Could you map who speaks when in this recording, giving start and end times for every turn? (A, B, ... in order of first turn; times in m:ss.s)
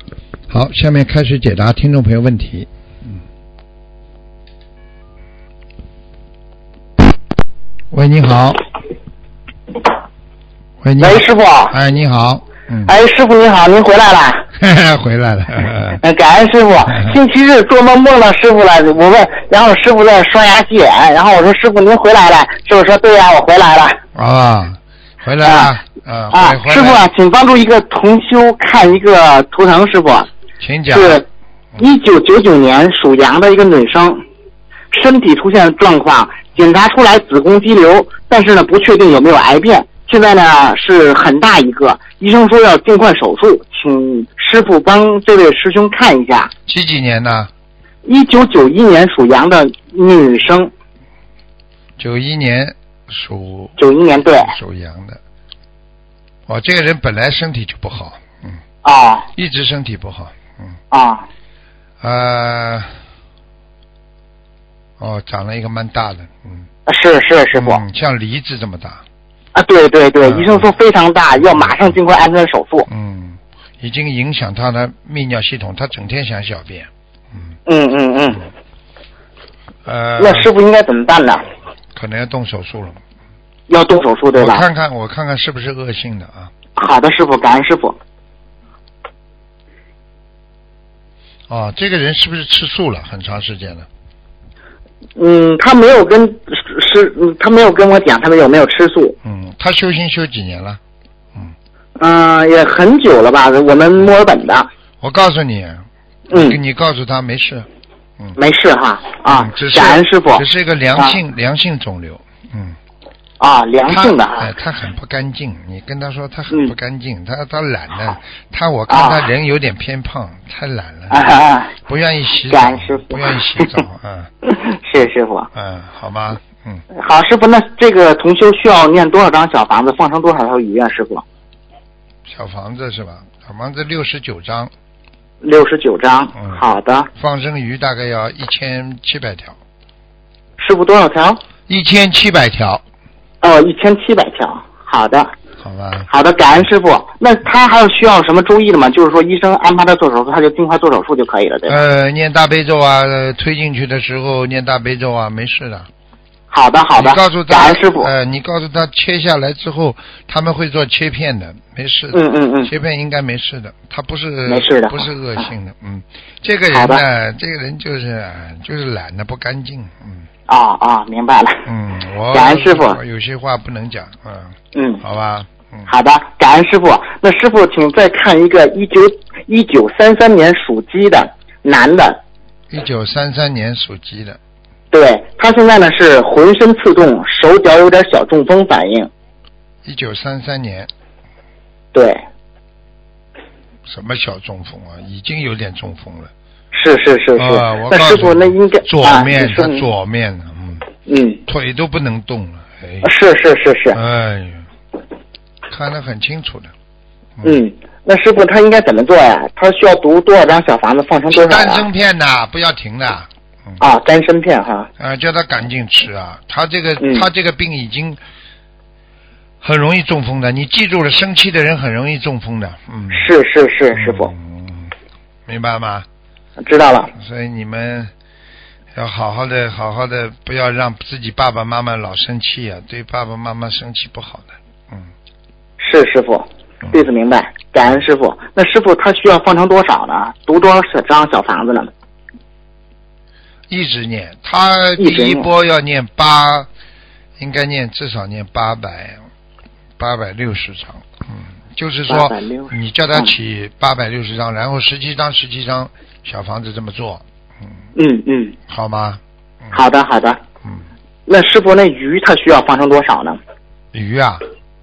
0:00.5-0:02.7 A
0:07.9-0:08.6 A
0:10.8-0:12.9 A
0:11.0-0:11.8 B
0:12.9-0:14.5 B
0:14.6-0:16.0 A
0:16.0-0:24.0 B
0:24.1-0:27.1 A
0:25.4-0:25.7 B
0:26.3-0:30.3 B
0:30.6-0:31.2 A
0:30.9-0:31.3 B
0:31.8-0:34.2 B
0:34.9-0:46.5 B
0:46.7-0:47.5 A
0:48.0-0:50.7 B
0:52.0-0:53.8 A
0:53.8-0:54.6 B
0:54.4-0:55.2 A
0:56.5-0:58.6 A
0:58.8-0:59.3 B
0:59.4-1:00.8 A
1:00.9-1:01.2 B
1:02.0-1:03.0 A
1:05.0-1:06.7 A
1:06.9-1:07.8 B
1:07.5-1:09.0 A
1:09.6-1:12.9 B
1:10.2-1:10.7 A
1:11.4-1:12.0 A
1:12.9-1:17.6 A
1:17.7-1:18.5 B
1:19.8-1:20.5 A
1:20.2-1:21.5 B
1:21.9-1:23.0 A
1:23.7-1:24.6 B
1:24.4-1:26.5 A
1:26.8-1:28.0 B
1:31.5-1:33.9 A
1:35.2-1:39.2 B
1:39.2-1:40.8 A
1:42.0-1:44.7 B
1:45.0-1:47.7 A
1:46.3-1:46.6 B
1:48.4-1:50.4 B
1:49.3-1:52.8 A
1:53.4-1:54.5 B
1:53.9-2:01.2 A
1:58.9-1:59.3 B
2:01.1-2:01.7 B
2:01.8-2:04.3 A
2:02.5-2:03.8 B
2:04.5-2:05.5 B
2:05.5-2:06.8 A
2:07.0-2:11.2 B
2:12.3-2:14.7 A
2:15.4-2:17.1 B
2:16.4-2:16.6 A
2:17.2-2:19.6 A
2:20.6-2:21.4 B
2:21.7-2:22.8 A
2:23.4-2:25.3 B
2:25.6-2:26.1 A
2:26.1-2:31.8 B
2:31.7-2:35.9 A
2:36.5-2:38.1 B
2:37.0-2:50.3 A
2:42.1-2:42.7 B
2:44.5-2:45.1 B
2:46.7-2:47.0 B
2:50.5-2:51.7 B
2:51.6-2:55.9 A
2:52.3-2:53.0 B
2:54.7-2:55.0 B
2:55.9-3:02.2 B
3:02.7-3:04.4 A
3:04.9-3:09.1 B
3:09.8-3:10.9 A
3:11.9-3:12.2 B
3:13.9-3:16.3 A
3:16.7-3:19.8 B
3:17.4-3:20.9 A
3:21.1-3:21.4 B
3:21.5-3:23.1 A
3:23.0-3:24.0 B
3:23.9-3:24.6 A
3:25.7-3:26.7 A
3:27.4-3:31.8 B
3:31.3-3:33.8 A
3:33.8-3:34.9 B
3:35.0-3:38.2 A
3:37.0-3:37.3 B
3:39.6-3:43.3 A
3:43.1-3:44.3 B
3:43.9-3:44.9 A
3:45.5-3:46.1 A
3:46.6-3:47.1 B
3:47.1-3:48.1 A
3:48.9-3:55.1 A
3:55.8-4:01.9 B
4:03.7-4:06.7 A
4:05.0-4:05.5 B
4:07.4-4:09.2 A
4:10.0-4:17.2 A
4:12.1-4:13.3 B
4:18.0-4:18.6 B
4:18.7-4:19.8 A
4:19.7-4:20.4 B
4:21.3-4:23.4 B
4:23.9-4:24.4 A